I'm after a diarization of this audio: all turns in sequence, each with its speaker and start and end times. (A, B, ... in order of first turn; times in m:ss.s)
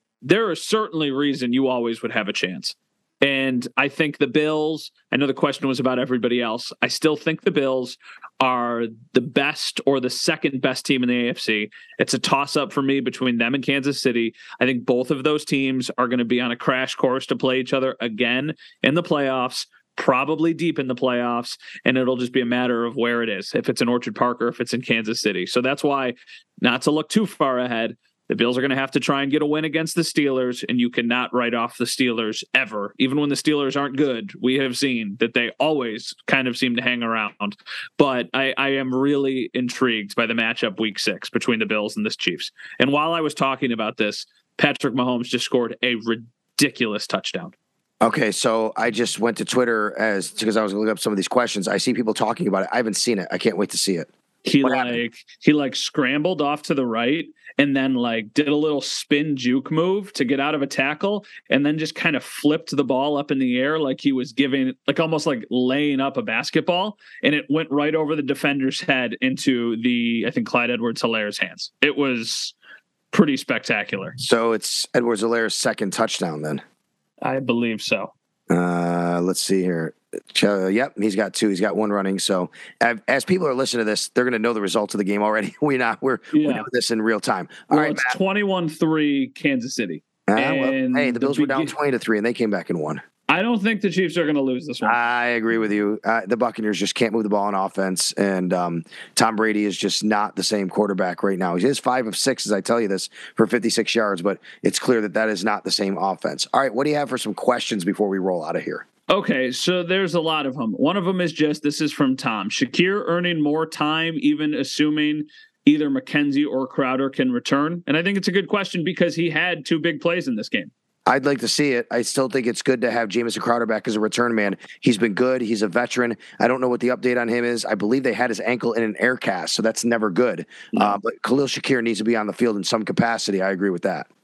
0:00.2-0:47.5 A
0:48.0-0:54.1 B
0:54.4-1:12.5 A
0:54.6-0:55.0 B
1:13.1-1:14.2 A
1:14.2-1:16.6 B
1:17.2-1:18.1 A
1:18.5-1:28.2 B
1:26.3-1:26.7 A
1:27.7-1:31.7 A
1:30.3-1:33.0 B
1:33.3-1:35.0 A
1:34.8-1:48.8 B
1:49.1-2:00.7 A
2:01.1-2:14.1 B